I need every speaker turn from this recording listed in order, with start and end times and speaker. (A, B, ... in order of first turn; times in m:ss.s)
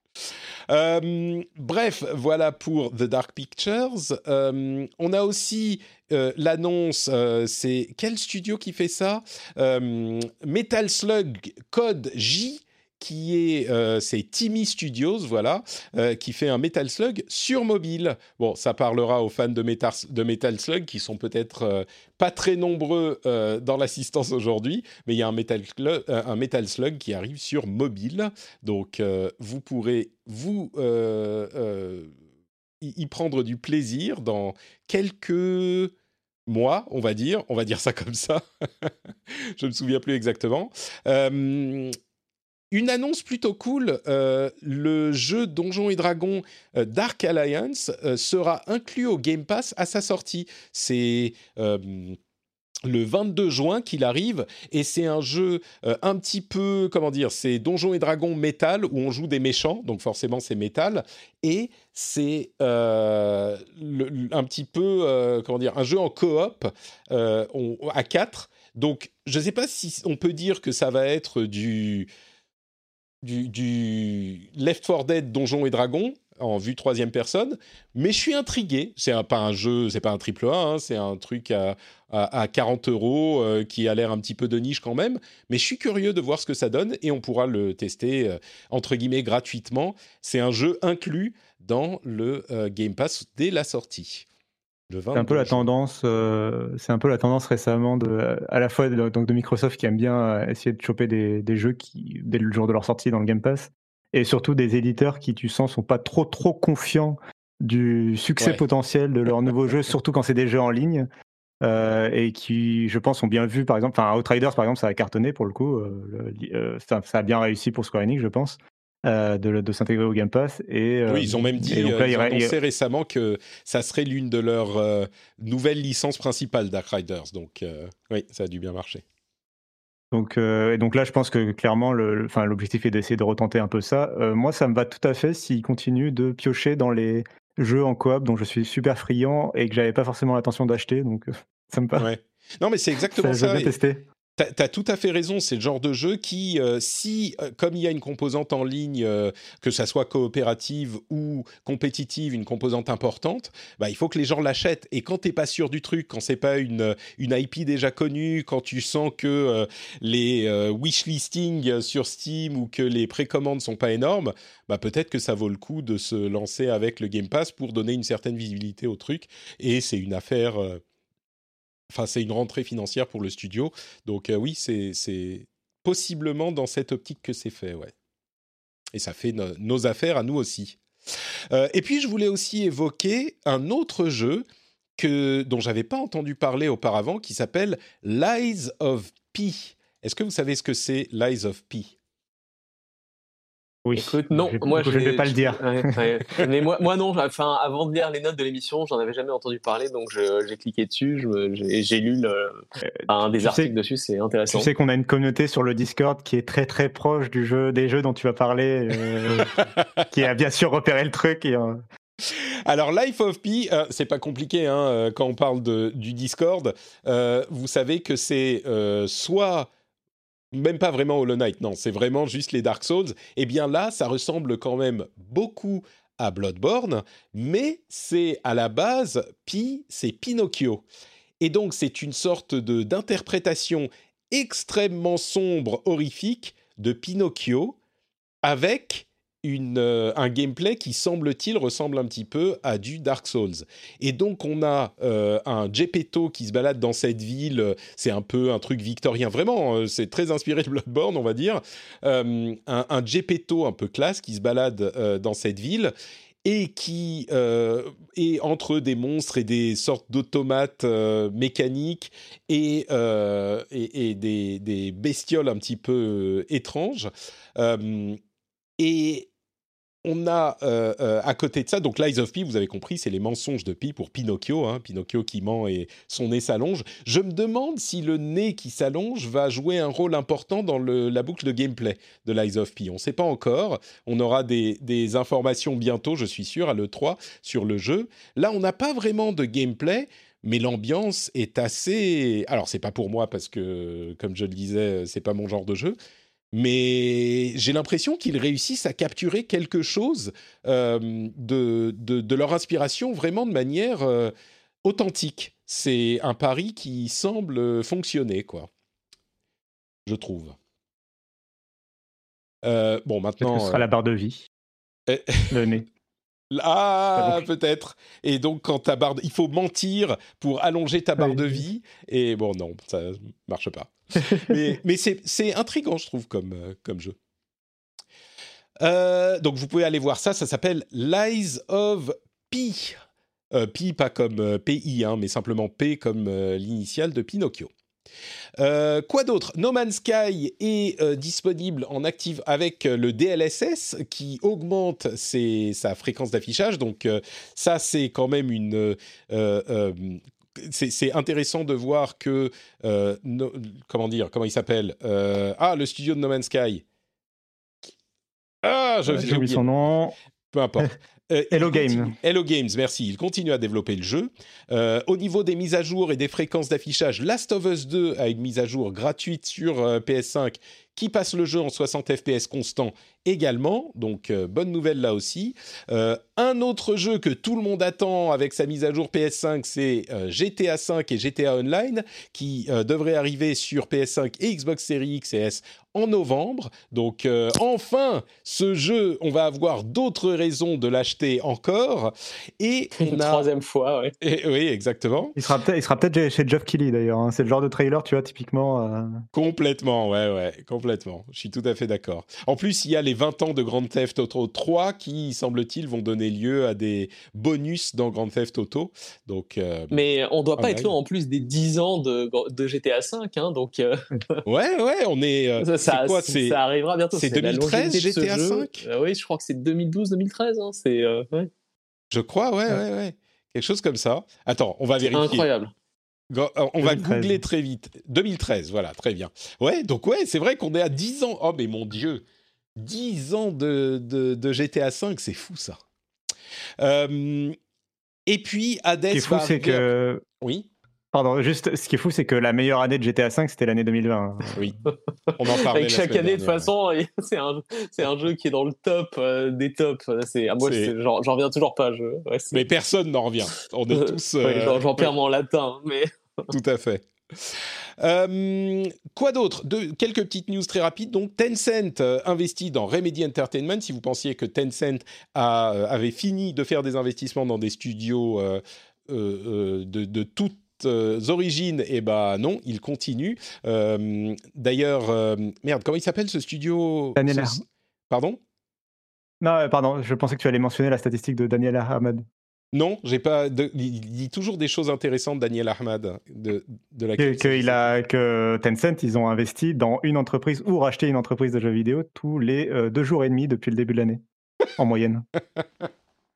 0:00.7-0:32.1 A
0:32.8-0:35.9 A
0:36.5-0:41.9 A
0:42.7-0:52.2 A
0:52.8-1:12.1 A
1:13.2-1:34.2 A
1:34.9-1:35.7 A
1:35.1-1:51.1 B
1:51.6-2:02.5 B
2:01.1-2:09.0 A
2:10.1-2:22.1 B
2:22.0-2:23.7 A
2:23.0-2:24.0 B
2:24.4-2:50.8 A
2:51.9-2:57.9 A
2:58.9-3:00.8 A
3:01.5-3:04.4 A
3:05.0-3:11.9 A
3:13.8-3:16.0 B
3:13.9-3:24.7 C
3:23.0-3:23.7 B
3:24.5-3:31.8 B
3:32.3-3:39.7 A
3:40.5-3:50.8 A
3:51.4-3:57.8 A
3:58.4-4:15.9 A
4:16.4-4:28.2 A
4:28.8-4:29.3 A
4:30.0-4:56.0 A
4:56.5-5:04.3 A
5:04.8-5:08.7 A
5:10.1-5:10.6 A
5:12.6-5:13.8 A
5:13.4-5:14.5 B
5:15.1-5:15.7 A
5:15.5-5:15.8 B
5:16.5-5:27.1 A
5:17.2-5:17.4 B
5:21.2-5:21.6 B
5:28.8-5:33.0 A
5:33.5-5:37.7 A
5:38.6-5:56.8 A
5:58.6-5:59.7 A
5:59.0-6:00.1 B
6:00.5-6:33.4 A
6:01.5-6:02.1 B
6:33.0-6:34.1 C
6:34.2-6:35.4 A
6:35.4-6:39.2 B
6:39.3-6:50.0 A
6:49.9-6:54.4 C
6:50.6-6:50.9 A
6:54.4-6:56.6 A
6:55.6-7:01.5 C
6:57.1-6:58.8 A
7:02.1-7:05.4 A
7:05.1-7:05.7 C
7:06.3-7:12.2 A
7:06.8-7:07.4 B
7:12.8-7:15.8 A
7:16.8-7:17.6 A
7:18.3-7:19.9 A
7:19.1-7:20.2 B
7:20.4-7:20.7 A
7:21.1-7:24.7 B
7:24.5-7:24.8 A
7:25.3-7:32.6 C
7:25.4-7:26.7 A
7:30.6-7:30.9 A
7:32.5-7:35.1 A
7:33.9-7:36.5 C
7:36.5-7:58.4 A
7:57.2-7:57.6 B
7:59.4-8:02.2 B
8:02.7-8:07.9 A
8:07.2-8:14.2 B
8:14.8-8:15.2 B